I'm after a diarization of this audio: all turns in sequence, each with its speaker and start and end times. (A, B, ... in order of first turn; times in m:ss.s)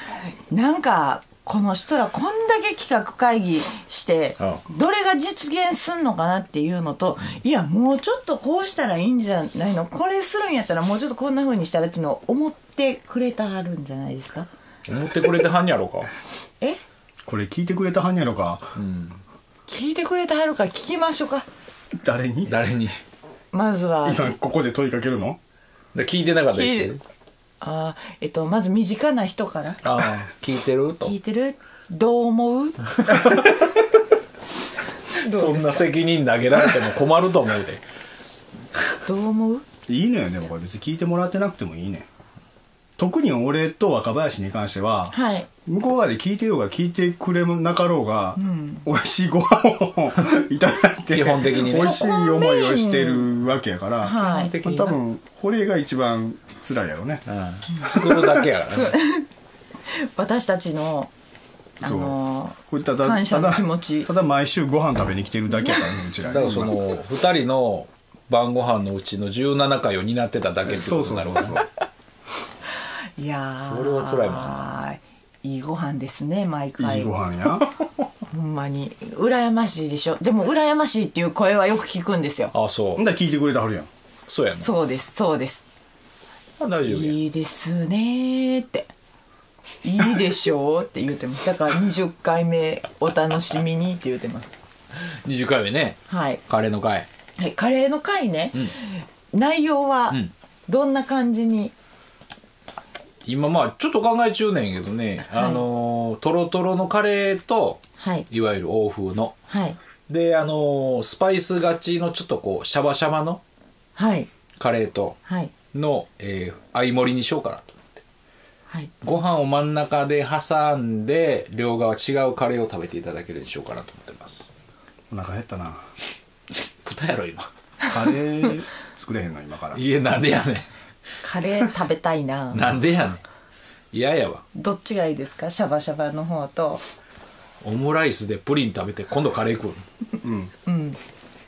0:00.5-0:14.5 A
0:14.9-0:16.1 B
0:17.3-0:18.7 C
0:18.8-0:19.2 B
0:19.7-0:21.5 A
0:21.9-0:22.5 C
0:22.5-0:23.0 B
0:23.5-0:24.3 A
0:24.0-0:25.4 C
0:25.9-0:27.0 B
0:26.5-0:26.9 A
0:27.6-0:29.8 A
0:29.8-0:31.1 B
0:31.0-0:33.2 A
0:35.1-0:35.9 A
0:35.2-0:37.8 B
0:39.0-0:39.6 A
0:39.9-0:42.1 C
0:43.0-0:45.1 C
0:45.1-0:45.5 A
0:45.6-0:57.3 C
0:48.4-0:48.9 A
0:51.1-0:52.0 B
0:51.6-0:53.3 A
0:54.0-0:54.9 A
0:54.2-0:55.0 B
0:57.3-0:59.0 B
0:57.7-0:59.3 A
0:59.9-1:01.1 A
1:01.8-1:04.1 A
1:01.8-1:06.8 C
1:06.3-1:11.6 B
1:10.7-1:11.6 C
1:13.2-1:17.2 A
1:13.6-1:14.6 B
1:16.8-1:17.7 C
1:18.3-1:22.5 A
1:22.5-1:23.0 B
1:23.0-1:23.9 C
1:24.3-1:24.7 B
1:24.6-1:25.6 A
1:26.6-1:27.2 B
1:26.9-1:28.9 A
1:29.8-1:34.5 A
1:35.0-1:37.1 B
1:36.1-1:36.4 A
1:37.4-1:41.7 A
1:43.2-1:49.4 B
1:45.3-1:45.6 A
1:48.0-1:48.3 A
1:49.5-1:49.8 A
1:50.1-1:53.4 B
1:54.0-1:54.3 A
1:54.6-1:55.2 B
1:55.3-1:55.5 A
1:55.7-1:58.0 B
1:59.0-2:04.5 B
2:05.1-2:05.9 C
2:06.8-2:07.5 B
2:07.9-2:09.8 C
2:09.7-2:10.7 B
2:11.2-2:12.7 A
2:12.5-2:13.2 B
2:13.9-2:14.4 B
2:14.6-2:16.8 A
2:17.6-2:19.8 B
2:20.2-2:20.5 C
2:20.7-2:21.0 A